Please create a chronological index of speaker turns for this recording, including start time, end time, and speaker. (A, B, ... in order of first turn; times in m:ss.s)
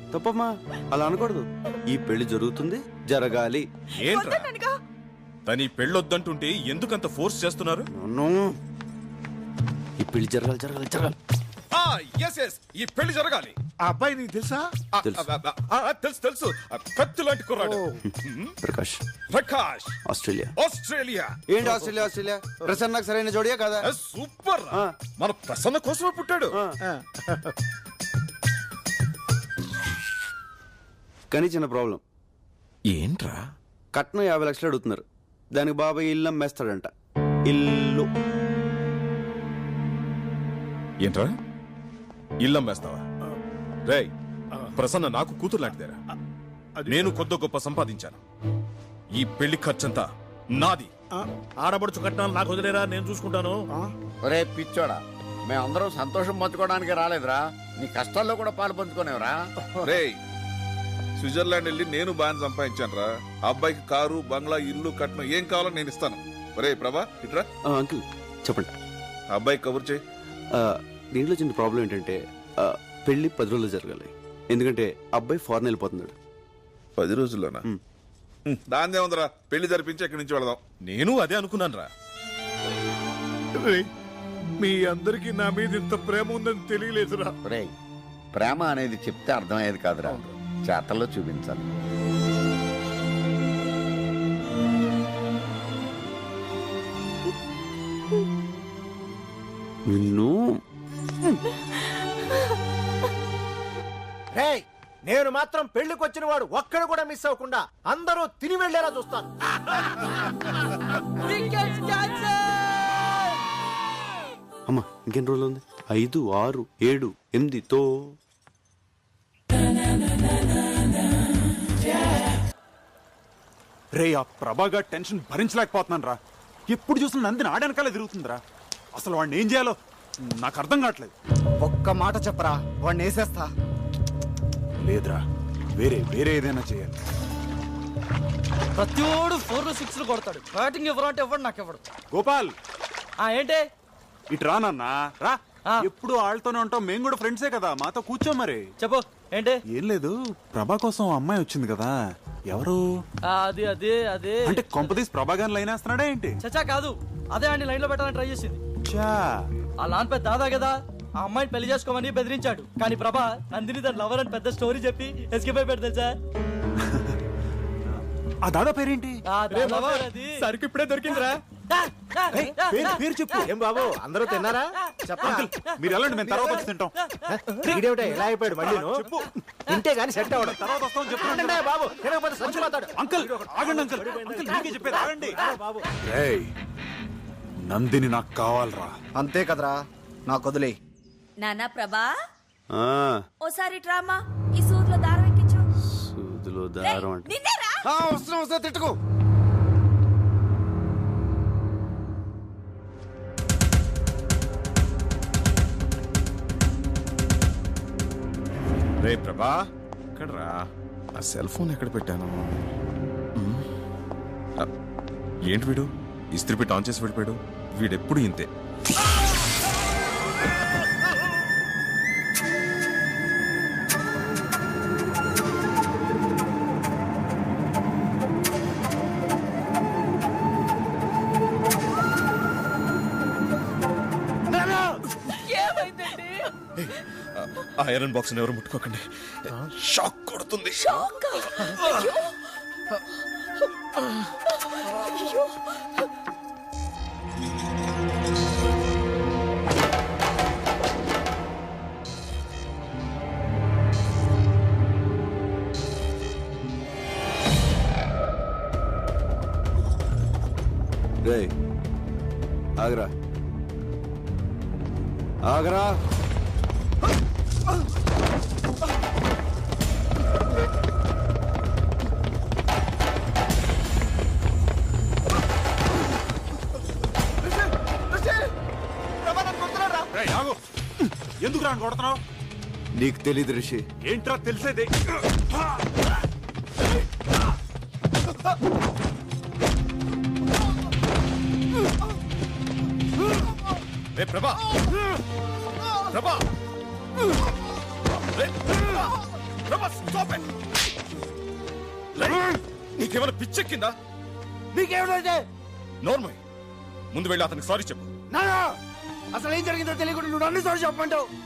0:00.1-0:03.7 A
0:04.0-0:04.5 B
0:04.0-0:04.5 C
0:05.5-0:07.9 B
0:07.9-0:08.5 A
0:10.0-0:11.2 A
0:11.7-0:13.6 B
0:13.8-0:14.7 D
0:14.9-0:18.5 B
0:15.0-0:15.3 A
0:18.6-0:19.0 A
0:19.3-0:20.0 B
0:20.1-0:20.5 A
0:20.6-0:21.4 B
0:21.5-0:23.9 A
0:23.8-0:26.6 B
0:31.3-0:32.0 A
0:32.9-0:33.4 B
0:33.9-0:36.9 A
0:37.5-0:38.1 A
0:41.0-0:41.4 B
0:42.4-0:43.0 B
0:43.8-0:44.1 B
0:44.8-0:46.0 B
0:46.9-0:47.2 E
0:46.9-0:48.2 B
0:49.2-0:50.9 B
0:51.1-0:53.9 E
0:54.2-0:59.9 F
0:59.8-1:00.2 G
1:01.2-1:07.5 G
1:07.7-1:08.7 A
1:09.3-1:10.0 G
1:10.6-1:16.1 A
1:17.0-1:17.6 G
1:18.5-1:20.6 G
1:20.8-1:21.9 B
1:23.6-1:23.9 E
1:24.6-1:27.3 E
1:27.4-1:27.7 F
1:28.3-1:31.6 F
1:39.9-1:40.6 A
1:44.3-1:49.3 D
1:51.2-1:53.2 H
1:54.7-1:58.2 A
2:03.9-2:06.2 I
2:06.7-2:08.4 I
2:09.0-2:11.1 I
2:11.6-2:13.5 D
2:14.8-2:15.2 I
2:15.7-2:17.0 I
2:18.8-2:21.8 H
2:22.1-2:22.6 I
2:23.2-2:23.6 H
2:24.3-2:28.7 I
2:28.8-2:29.6 H
2:29.7-2:32.0 I
2:32.5-2:33.0 I
2:33.3-2:34.7 H
2:34.4-2:36.4 I
2:36.4-2:38.6 H
2:38.9-2:39.4 I
2:39.8-2:46.2 H
2:46.8-2:47.2 I
2:47.9-2:49.2 I
2:49.3-2:53.5 H
2:49.5-2:50.1 E
2:52.3-2:53.4 I
2:53.4-2:55.4 D
2:55.1-2:55.7 H
2:55.2-2:56.9 I
2:56.2-2:56.6 D
2:57.1-2:57.8 H
2:57.3-2:59.1 D
2:57.7-2:59.3 I
2:59.7-3:00.6 D
3:00.2-3:06.5 I
3:01.2-3:05.8 D
3:07.7-3:09.0 I
3:09.1-3:10.8 D
3:11.4-3:12.2 C
3:12.7-3:13.3 A
3:13.4-3:15.6 C
3:15.8-3:17.3 A
3:16.8-3:17.8 C
3:17.8-3:18.9 A
3:29.0-3:29.6 B
3:30.2-3:30.6 B
3:31.2-3:32.6 B
3:33.4-3:33.7 B
3:35.5-3:38.5 B
3:55.5-3:56.4 C
3:56.8-4:02.1 B
4:00.9-4:02.2 C
4:05.2-4:05.5 C
4:21.2-4:21.5 A
4:22.8-4:23.1 A
4:25.5-4:26.0 A
4:39.3-4:42.2 I
4:43.0-4:43.8 A
4:44.0-4:44.9 I
4:54.1-4:55.0 B
4:55.9-4:56.5 B
4:58.2-4:59.1 B
4:59.7-5:00.5 B
5:02.2-5:04.0 B
5:04.7-5:05.4 D
5:06.0-5:06.4 B
5:07.1-5:08.1 B
5:08.4-5:08.6 D
5:09.4-5:11.2 D